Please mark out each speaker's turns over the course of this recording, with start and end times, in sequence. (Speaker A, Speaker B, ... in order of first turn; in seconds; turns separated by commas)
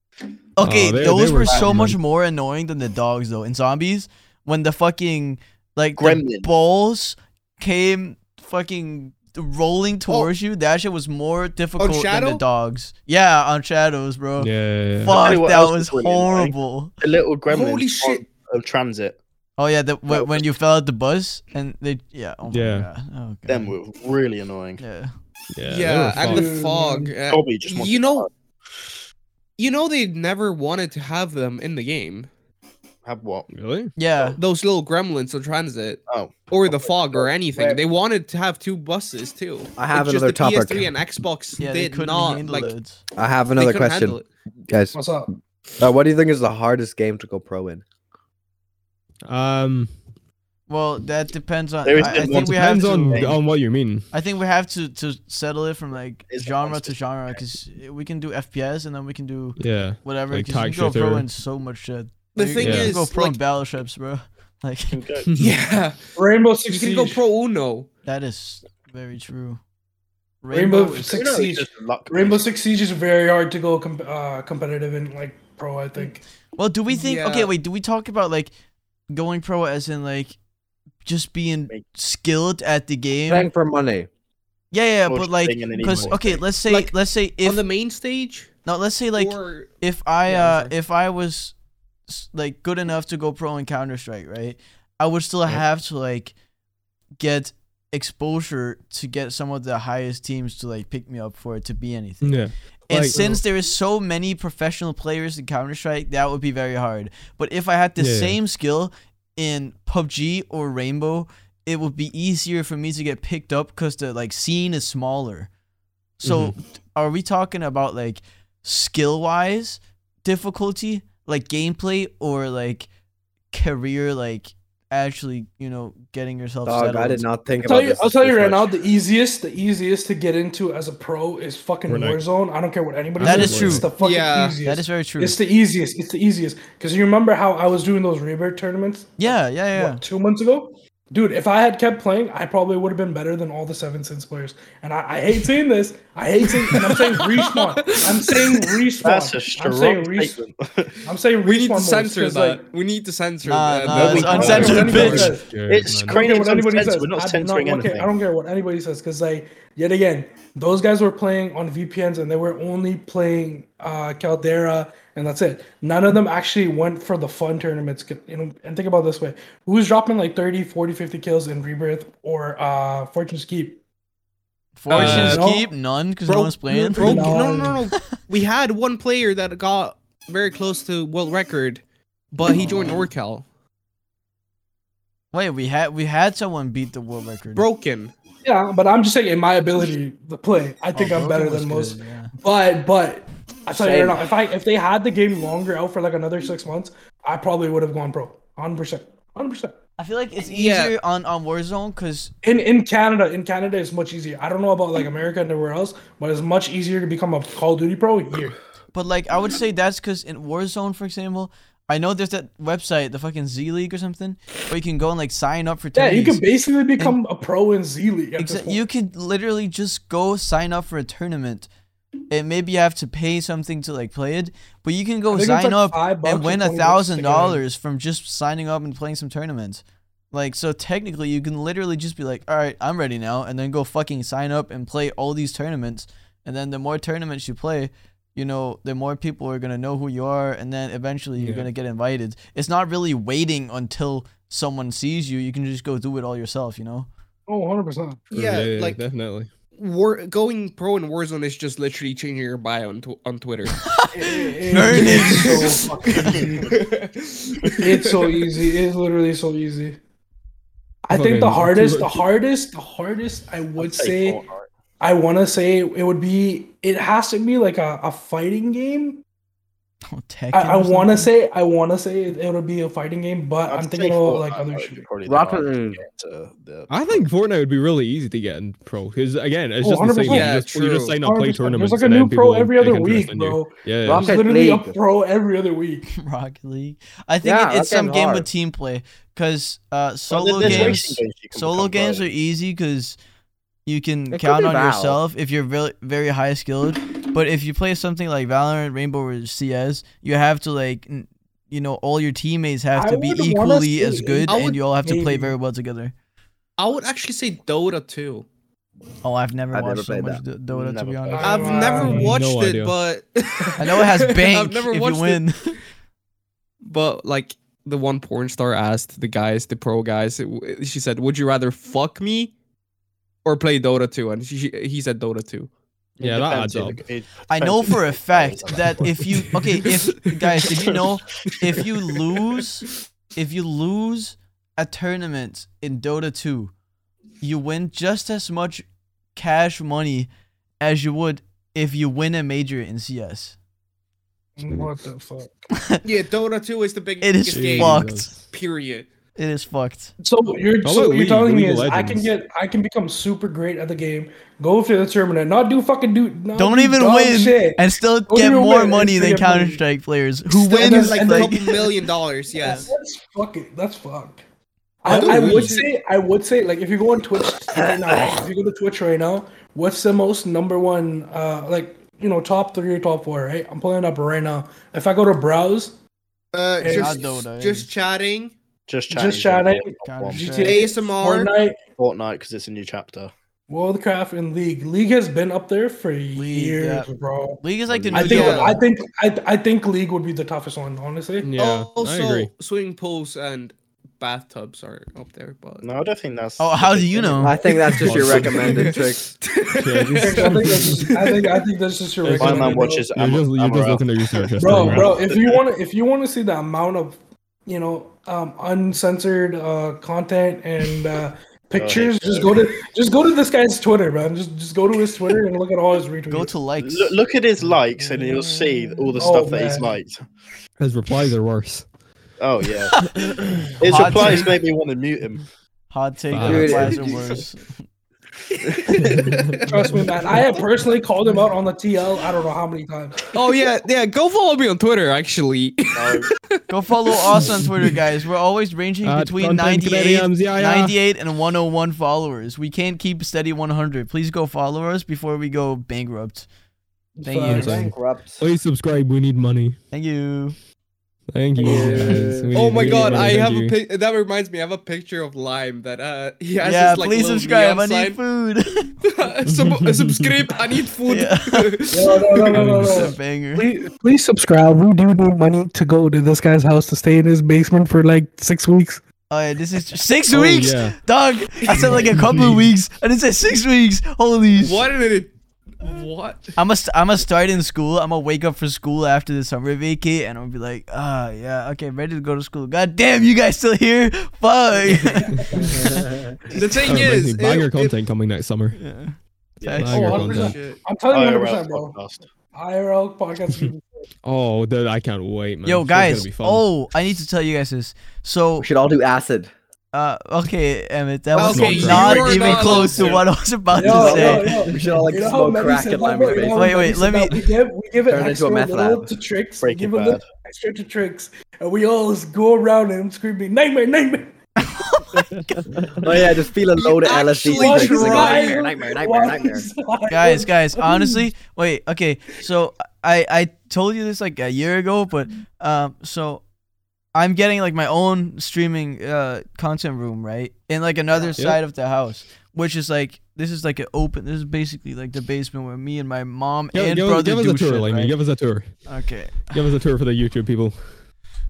Speaker A: 0.6-14.5, Speaker B: 0.6-2.0, Speaker C: 6.0-6.5, Speaker D: 11.8-12.4, Speaker B: 14.4-15.2, Speaker A: 15.1-16.9, Speaker C: 15.1-19.2, Speaker D: 17.5-18.3, Speaker A: 19.6-23.7, Speaker C: 20.1-20.5, Speaker B: 22.5-22.9, Speaker C: 23.5-24.8, Speaker A: 24.8-25.1, Speaker B: 25.5-26.5, Speaker D: 25.7-28.3, Speaker E: 26.2-27.1, Speaker C: 27.3-28.3, Speaker D: 29.6-32.3, Speaker C: 33.1-33.5, Speaker B: 33.5-33.9, Speaker A: 34.0-34.4, Speaker D: 34.4-42.7, Speaker C: 36.1-37.3, Speaker F: 39.8-40.9, Speaker A: 41.6-43.0, Speaker F: 43.2-44.2, Speaker D: 43.5-44.3, Speaker F: 44.7-45.0, Speaker E: 44.9-45.3, Speaker F: 45.8-47.8, Speaker B: 49.2-49.9, Speaker A: 50.7-53.4, Speaker C: 51.9-53.4, Speaker B: 52.1-54.1, Speaker A: 54.1-65.0, Speaker C: 56.3-57.5, Speaker B: 59.6-61.3, Speaker D: 62.4-63.4, Speaker B: 62.6-63.0, Speaker C: 64.9-65.3, Speaker B: 65.3-65.6, Speaker D: 65.4-66.0, Speaker E: 66.2-67.2, Speaker D: 66.7-67.9, Speaker A: 68.0-69.6, Speaker A: 70.4-71.3, Speaker E: 70.5-76.2, Speaker C: 71.0-72.5, Speaker A: 76.5-78.5, Speaker D: 76.9-77.5, Speaker A: 79.1-80.3, Speaker A: 81.0-83.5, Speaker F: 83.3-84.1, Speaker A: 84.7-87.6, Speaker C: 85.1-86.4, Speaker B: 85.9-86.1, Speaker D: 86.7-86.9, Speaker D: 87.4-88.5, Speaker A: 88.7-91.5, Speaker D: 89.2-89.7, Speaker D: 90.3-90.7, Speaker A: 92.1-96.3, Speaker A: 97.2-115.5, Speaker B: 102.2-103.4, Speaker B: 108.0-108.4, Speaker A: 116.2-122.9, Speaker B: 116.2-116.6, Speaker A: 123.5-127.3, Speaker F: 126.7-128.7, Speaker E: 127.6-150.4, Speaker B: 131.9-132.2, Speaker B: 133.2-133.9, Speaker A: 133.2-134.0, Speaker D: 134.0-134.6, Speaker A: 134.6-135.4, Speaker A: 139.2-140.0, Speaker D: 146.7-148.8, Speaker C: 149.0-151.0, Speaker E: 151.1-152.6, Speaker D: 151.4-155.0, Speaker A: 153.4-155.4, Speaker E: 154.0-155.5, Speaker C: 154.0-154.9, Speaker B: 154.1-156.2, Speaker C: 155.7-158.1, Speaker E: 156.1-173.8, Speaker A: 174.8-178.1, Speaker D: 174.9-175.4, Speaker E: 174.9-175.7, Speaker B: 174.9-175.4, Speaker D: 176.3-181.8, Speaker E: 176.9-177.8, Speaker D: 182.3-183.4, Speaker A: 185.3-187.7, Speaker D: 187.6-188.1, Speaker E: 188.4-199.8, Speaker A: 190.9-192.3, Speaker F: 193.8-194.2, Speaker A: 200.0-202.3, Speaker D: 200.4-200.9, Speaker E: 202.4-208.6, Speaker A: 208.9-216.4, Speaker E: 215.9-218.8, Speaker A: 218.4-221.7, Speaker A: 222.3-247.1, Speaker E: 225.3-227.6, Speaker B: 241.4-241.7, Speaker E: 247.5-248.3, Speaker D: 248.3-249.0, Speaker B: 248.3-249.5, Speaker D: 249.7-253.8, Speaker A: 253.7-255.8, Speaker E: 254.1-256.7, Speaker D: 254.8-258.5, Speaker C: 256.2-256.9, Speaker E: 257.8-260.0, Speaker E: 261.1-264.4, Speaker B: 261.1-262.2, Speaker C: 263.8-264.7, Speaker E: 265.0-269.2, Speaker A: 270.1-271.3, Speaker E: 270.5-275.1, Speaker C: 273.7-277.2, Speaker F: 275.2-276.0, Speaker B: 276.9-284.3, Speaker E: 279.8-280.6, Speaker D: 280.3-281.1, Speaker E: 281.2-286.1, Speaker F: 284.1-285.0, Speaker A: 286.1-293.2, Speaker F: 287.4-288.5, Speaker C: 290.3-292.3, Speaker B: 290.6-291.0, Speaker A: 293.9-306.1, Speaker F: 294.3-295.2, Speaker E: 302.9-305.5, Speaker D: 304.5-304.8, Speaker D: 306.8-308.5, Speaker A: 309.2-312.1, Speaker F: 309.7-310.4, Speaker C: 310.7-311.8, Speaker E: 311.3-312.3, Speaker D: 311.4-315.5, Speaker B: 311.9-312.9, Speaker A: 313.8-315.8, Speaker D: 316.8-322.5, Speaker D: 323.4-325.7, Speaker C: 326.2-329.4, Speaker B: 326.2-327.0, Speaker A: 327.5-336.7, Speaker D: 330.6-330.9, Speaker A: 337.4-340.3, Speaker A: 340.8-343.6, Speaker E: 344.6-345.5, Speaker A: 345.7-346.0, Speaker D: 346.0-349.1, Speaker A: 347.2-348.3, Speaker B: 347.5-348.4, Speaker A: 349.4-350.1, Speaker E: 350.2-359.8, Speaker B: 350.8-352.3, Speaker A: 356.6-362.0, Speaker D: 360.5-362.9, Speaker E: 360.8-361.5, Speaker E: 362.6-364.4, Speaker A: 362.6-362.9, Speaker E: 365.0-376.0, Speaker D: 365.1-365.9, Speaker B: 365.1-365.8, Speaker D: 376.5-378.5, Speaker E: 376.8-377.2, Speaker A: 376.9-377.9, Speaker C: 378.9-380.7, Speaker E: 379.1-381.8, Speaker A: 380.0-380.8, Speaker D: 380.6-381.5, Speaker C: 382.0-383.3, Speaker E: 383.7-391.5, Speaker A: 386.4-387.1, Speaker A: 387.6-388.8, Speaker C: 387.9-388.6, Speaker D: 388.1-388.8, Speaker B: 391.4-392.5, Speaker D: 391.6-395.9, Speaker C: 395.8-397.6, Speaker A: 396.6-397.6, Speaker F: 397.4-399.2, Speaker D: 397.9-401.6, Speaker B: 398.0-398.9, Speaker B: 399.8-401.1, Speaker E: 400.2-403.1, Speaker B: 402.2-405.1, Speaker C: 402.3-405.6, Speaker E: 404.6-416.6, Speaker C: 411.8-412.6, Speaker A: 416.3-417.2, Speaker C: 416.8-420.2, Speaker E: 419.2-419.9, Speaker B: 420.8-421.9, Speaker C: 422.4-423.2, Speaker A: 422.9-424.6, Speaker C: 423.8-425.4, Speaker A: 425.9-427.8, Speaker B: 426.3-427.0, Speaker F: 426.4-427.1, Speaker D: 426.8-427.4, Speaker D: 428.6-429.7, Speaker B: 428.9-429.6, Speaker E: 429.7-433.3, Speaker D: 433.3-437.6, Speaker C: 435.9-436.3, Speaker A: 436.7-446.5, Speaker B: 439.0-441.0, Speaker E: 447.2-447.7, Speaker A: 447.2-447.9, Speaker F: 447.3-448.4, Speaker B: 447.5-449.8, Speaker A: 449.9-450.6, Speaker B: 451.3-453.8, Speaker F: 451.6-453.4, Speaker E: 451.8-452.1, Speaker D: 452.5-458.2, Speaker A: 456.6-458.9, Speaker D: 459.0-462.6, Speaker B: 459.4-460.4, Speaker A: 461.1-461.9, Speaker E: 461.9-469.0, Speaker A: 462.5-463.7, Speaker B: 462.5-463.1, Speaker A: 469.3-474.8, Speaker B: 470.3-471.0, Speaker D: 471.7-472.0, Speaker B: 471.9-472.6, Speaker D: 474.6-476.6, Speaker A: 476.6-486.0, Speaker E: 485.1-485.9, Speaker F: 485.6-486.4, Speaker D: 486.5-487.9, Speaker A: 486.6-486.9, Speaker B: 486.8-488.8, Speaker A: 488.8-490.4, Speaker C: 489.6-490.1, Speaker B: 489.8-490.6, Speaker E: 489.9-492.0, Speaker D: 490.2-490.8, Speaker C: 491.1-492.3, Speaker E: 492.5-493.9, Speaker B: 494.2-496.7, Speaker A: 495.7-498.7, Speaker F: 498.6-499.5, Speaker A: 499.9-504.7, Speaker D: 501.3-503.3, Speaker B: 501.4-502.3, Speaker C: 502.4-502.8, Speaker E: 503.7-514.3, Speaker F: 503.8-506.9, Speaker D: 504.1-504.4, Speaker A: 506.5-507.4, Speaker F: 508.1-509.1, Speaker C: 509.6-510.3, Speaker A: 514.6-515.8, Speaker B: 515.2-516.0, Speaker F: 516.0-519.7, Speaker D: 516.7-518.8, Speaker E: 517.5-521.3, Speaker A: 520.1-526.5, Speaker A: 527.1-538.1, Speaker B: 536.7-538.7, Speaker A: 538.9-539.6, Speaker B: 539.5-540.8